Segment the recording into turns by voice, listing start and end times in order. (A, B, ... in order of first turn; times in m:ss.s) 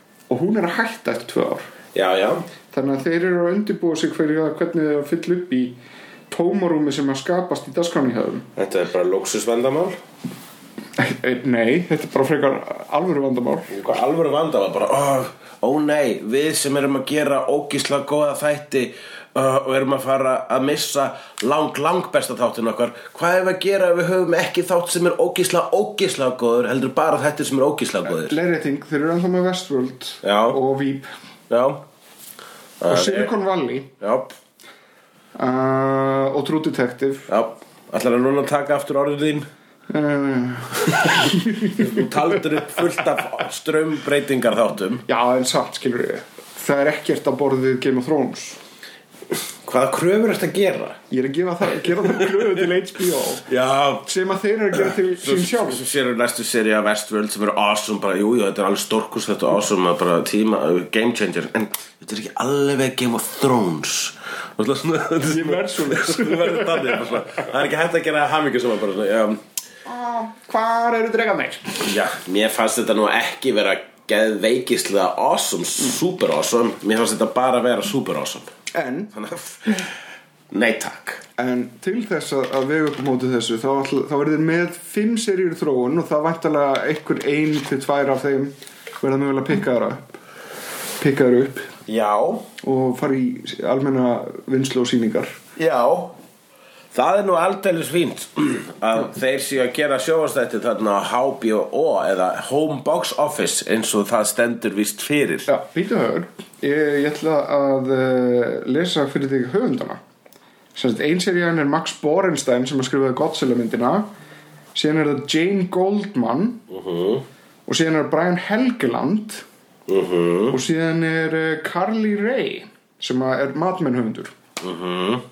0:00.3-0:01.6 A
0:01.9-0:02.5 B
0:02.7-0:05.8 A
0:06.3-0:08.5 A
0:08.6-0:10.0 B
0:11.0-0:13.7 A
0:13.7-0:28.4 B
0:28.1-0:31.1 A
0:30.2-0:30.6 B
0:31.5-0:31.8 B
0:32.8-0:33.3 B
0:32.9-0:33.9 A
0:34.0-0:34.3 B
0:35.4-0:37.3 A
0:37.3-0:39.5 B
0:39.9-0:41.9 A
0:41.7-0:45.0 B
0:45.1-0:48.6 A
0:49.6-0:51.0 B
0:51.1-0:53.5 A
0:53.5-0:54.1 B
0:54.0-0:55.8 A
0:54.9-1:09.4 B
1:05.3-1:07.2 A
1:09.9-1:11.9 A
1:11.8-1:18.5 B
1:18.7-1:19.1 A
1:19.1-1:19.9 B
1:20.5-1:21.2 B
1:21.4-1:30.1 A
1:31.0-1:31.7 A
1:31.9-1:32.5 B
1:32.6-1:35.4 A
1:35.6-1:36.2 B
1:36.9-1:45.5 B
1:45.5-1:50.0 A
1:50.8-1:54.1 A
1:54.8-1:56.6 A
1:56.7-1:57.3 B
1:57.7-1:59.4 A
1:59.9-2:00.6 B
2:00.5-2:04.3 A
2:04.6-2:05.2 B